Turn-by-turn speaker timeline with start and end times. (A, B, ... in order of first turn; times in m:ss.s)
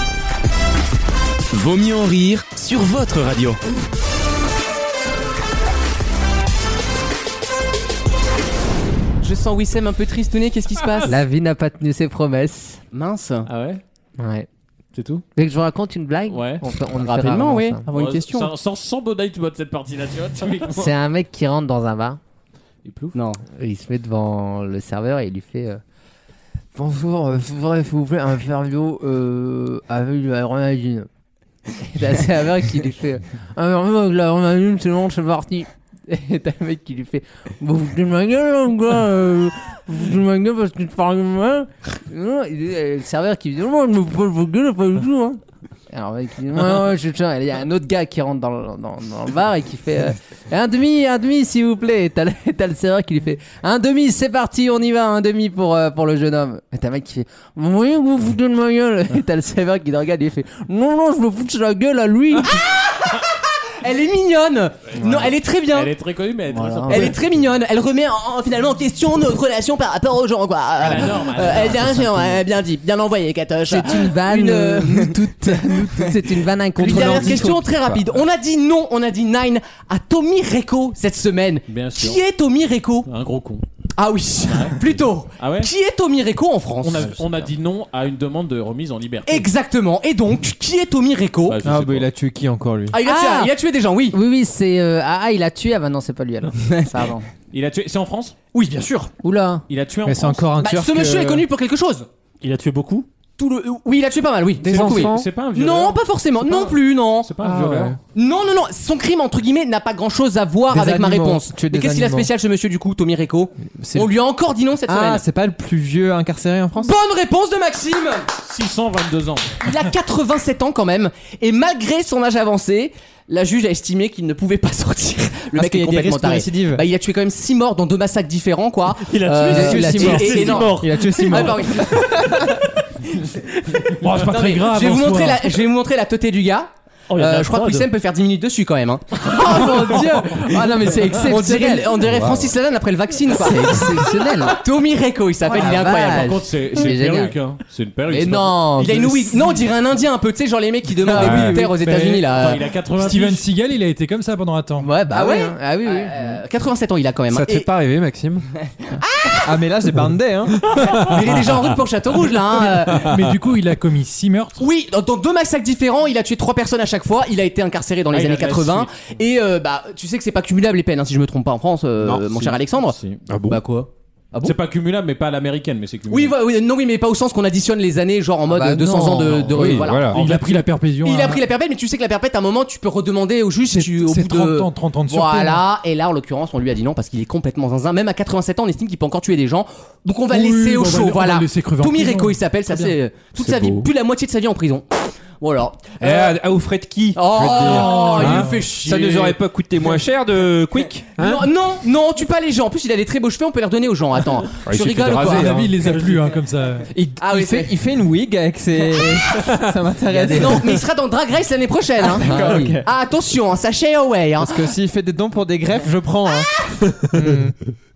0:01.5-0:03.6 A
0:09.2-0:11.2 B
0:11.1-0:12.8 C
0:12.9-0:13.5 B
0:13.5-0:13.8 D
0:14.2-0:14.5 C
0:14.9-0:15.2 D
0:15.4-0:17.9 C
0:16.3-0:16.6 D
0:17.0-0:18.5 B
0:17.9-0:20.9 D
0:20.7-0:22.2 C
0:22.8-0:23.2 D
0:23.1-0:23.4 B
0:23.6-0:25.8 C
0:26.8-0:31.1 C
0:31.8-1:02.6 C
1:02.4-1:05.9 B
1:05.7-1:07.2 D
1:06.5-1:07.2 C
1:06.9-1:16.1 B
1:10.8-1:12.1 D
1:11.6-1:12.4 C
1:13.7-1:17.7 C
1:16.8-1:23.1 B
1:21.7-1:22.2 D
1:23.1-1:23.6 D
1:24.0-1:27.2 B
1:24.4-1:25.7 D
1:26.8-1:29.5 D
1:29.3-1:31.6 B
1:31.5-1:32.1 D
1:31.6-1:33.0 E
1:32.9-1:34.2 B
1:33.0-1:33.5 C
1:34.1-1:37.3 C
1:36.7-1:37.1 B
1:37.5-1:38.4 D
1:38.5-1:39.1 B
1:39.2-1:39.6 C
1:39.7-1:40.5 D
1:40.1-1:41.4 E
1:40.6-1:42.1 B
1:42.4-1:43.1 F
1:43.4-1:47.4 B
1:44.6-1:45.3 G
1:44.6-1:46.0 D
1:47.2-1:48.0 D
1:47.4-1:48.0 G
1:48.1-1:55.2 B
1:50.7-1:52.3 E
1:53.7-1:54.1 E
1:54.9-1:57.0 E
1:56.8-1:58.3 B
1:58.4-1:59.6 D
1:59.6-2:12.3 B
2:05.5-2:06.8 E
2:09.0-2:11.6 F
2:09.5-2:12.4 E
2:14.0-2:15.5 H
2:14.2-2:26.4 B
2:17.1-2:17.9 F
2:19.3-2:22.0 C
2:19.5-2:21.2 E
2:22.0-2:22.6 G
2:23.4-2:24.6 C
2:25.5-2:27.4 C
2:25.5-2:28.6 D
2:28.1-2:29.4 C
2:28.8-2:33.1 B
2:31.0-2:32.4 H
2:31.0-2:31.7 C
2:32.2-2:33.4 D
2:33.0-2:34.9 H
2:34.8-2:36.4 C
2:35.0-2:37.7 B
2:37.3-2:38.5 G
2:38.9-2:39.7 B
2:39.4-2:40.6 E
2:40.7-2:43.2 B
2:42.6-2:44.6 H
2:44.6-2:54.6 B
2:48.1-2:49.2 D
2:52.2-2:53.2 D
2:53.3-2:53.6 G
2:54.4-2:56.4 D
2:56.1-3:14.9 B
2:58.5-3:00.0 C
2:59.5-3:00.2 G
3:00.1-3:01.4 H
3:03.7-3:05.6 H
3:10.3-3:13.0 H
3:13.4-3:13.9 G
3:15.4-3:16.4 B
3:16.0-3:21.5 G
3:17.2-3:20.0 B
3:17.5-3:18.6 H
3:21.2-3:25.6 B
3:24.6-3:25.8 G
3:25.1-3:26.9 H
3:26.9-3:30.8 E
3:27.2-3:27.7 B
3:29.3-3:29.6 G
3:30.1-3:34.7 B
3:32.0-3:32.9 E
3:34.4-3:36.5 E
3:37.1-3:37.6 E